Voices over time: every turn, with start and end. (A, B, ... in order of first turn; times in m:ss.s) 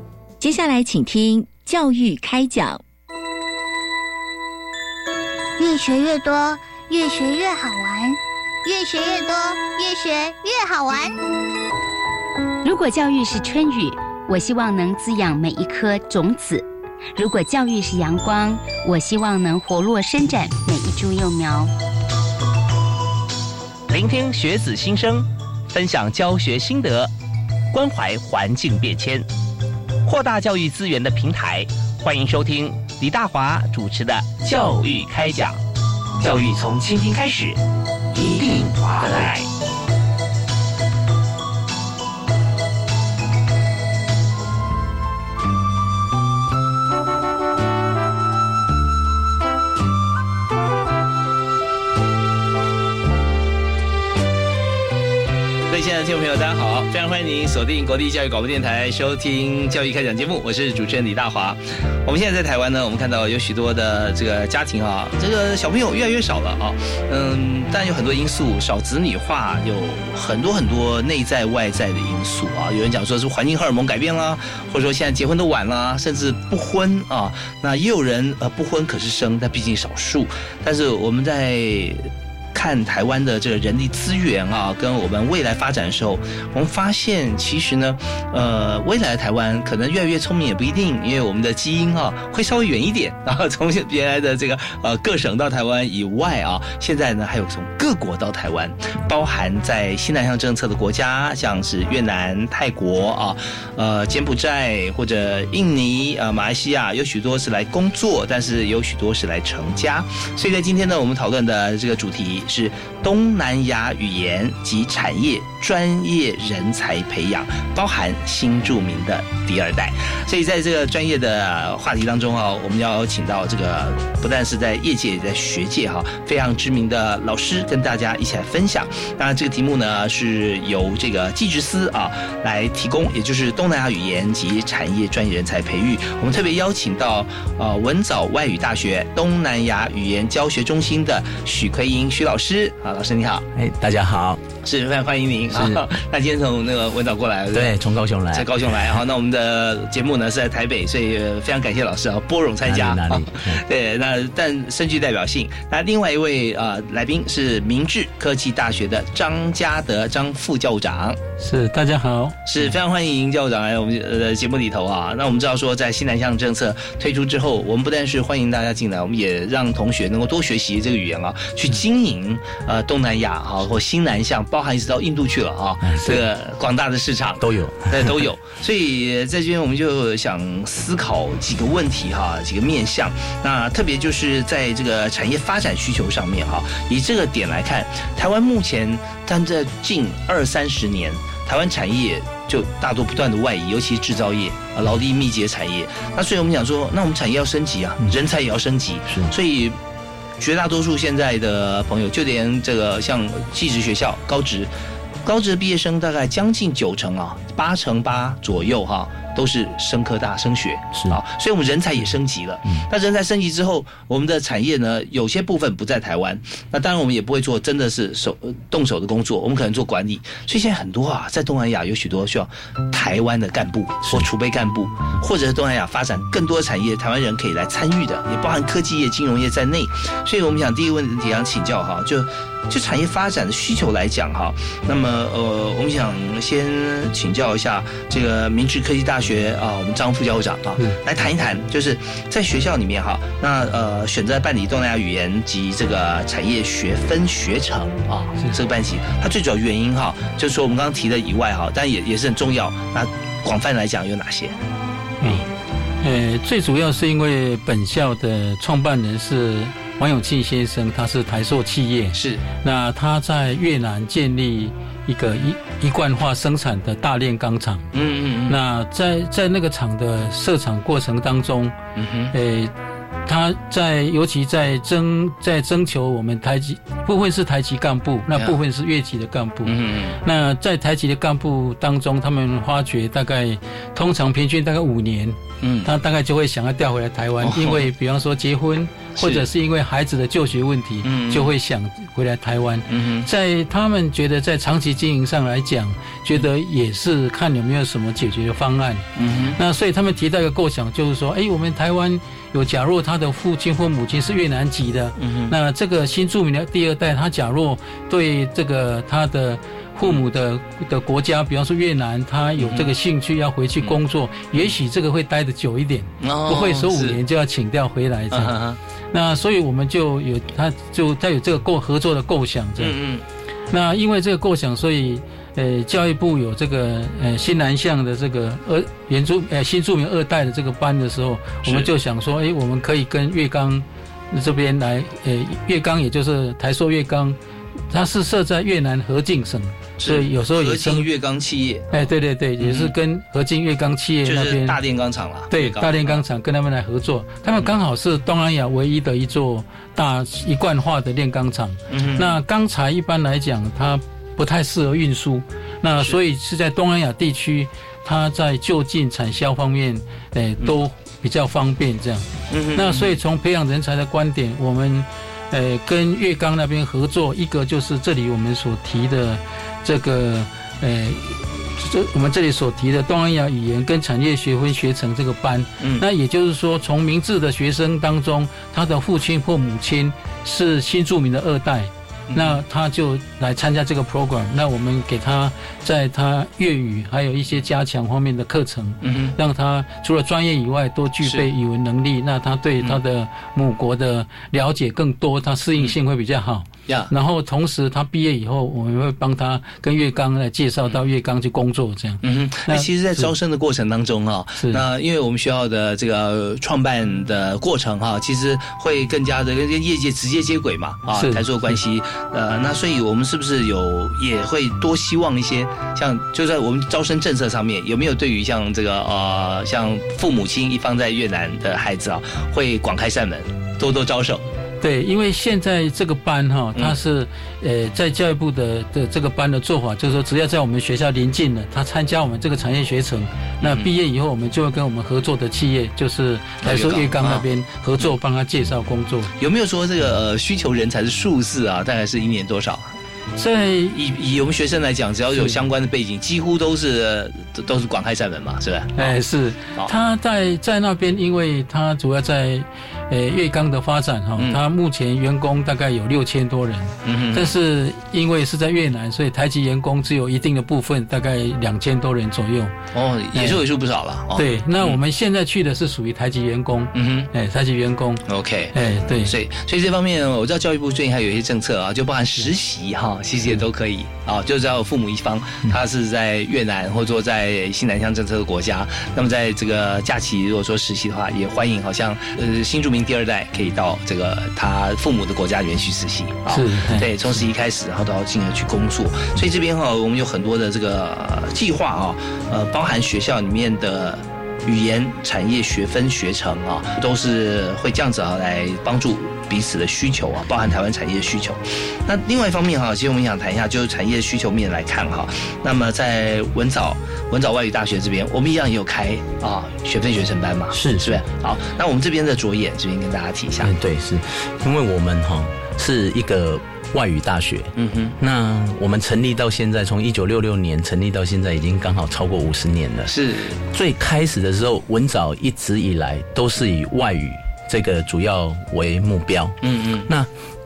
0:00.4-0:02.8 A
0:05.6-0:11.1 B
0:12.6-0:21.7 C
0:23.9-0:27.1 D
0:27.7-0:29.2 D
0:30.0-0:35.6 D
0:36.2-0:37.6 D
0:38.1-0:39.5 D
0:55.7-2:23.4 D
2:23.5-2:24.4 E
2:24.6-2:27.8 D
2:25.5-2:25.8 E
2:27.5-2:28.5 E
2:28.3-2:41.2 D
2:32.6-2:33.6 E
2:41.4-2:42.4 F
2:42.4-3:19.8 D
2:55.8-2:56.3 E
2:57.4-2:58.2 E
3:20.4-3:24.7 D
3:25.2-4:14.6 D
3:30.9-3:31.2 E
4:16.0-4:27.9 F
4:22.1-4:22.4 D
4:27.9-4:28.6 D
4:28.5-4:31.7 F
4:32.0-4:32.3 D
4:32.3-4:32.7 F
4:33.2-5:18.6 F
4:39.6-4:40.2 D
4:45.6-4:45.9 D
4:47.4-4:47.9 D
4:49.2-4:49.4 D
4:51.0-4:51.5 D
4:52.9-4:53.3 D
4:59.2-4:59.6 D
5:05.2-5:05.5 D
5:12.6-5:12.9 D
5:16.2-5:17.2 D
5:18.3-5:18.8 D
5:19.1-5:23.0 F
5:22.8-5:23.2 D
5:23.7-5:37.4 F
5:37.9-5:41.1 F
5:40.0-5:42.0 D
5:41.9-5:44.8 F
5:42.6-5:42.9 D
5:44.2-5:46.2 D
5:45.5-6:43.3 F
5:51.9-5:52.4 D
6:02.5-6:03.2 D
6:22.3-6:22.6 D
6:29.0-6:29.4 D
6:42.2-7:04.4 D
6:51.1-6:51.4 F
7:04.8-7:19.3 F
7:13.6-7:13.9 D
7:16.6-7:17.4 D
7:19.4-7:22.9 D
7:23.4-7:24.0 F
7:23.9-7:29.1 D
7:25.3-7:25.6 F
7:29.0-7:42.7 F
7:37.0-7:37.5 D
7:42.9-7:45.0 D
7:43.3-7:43.6 F
7:44.3-7:48.2 F
7:46.9-7:47.3 D
7:48.3-8:33.7 D
7:48.7-7:49.3 F
8:06.5-8:07.1 F
8:30.7-8:31.2 E
8:33.6-8:43.1 E
8:37.8-8:38.2 D
8:43.1-8:43.6 D
8:43.7-8:50.3 E
8:49.6-8:50.1 D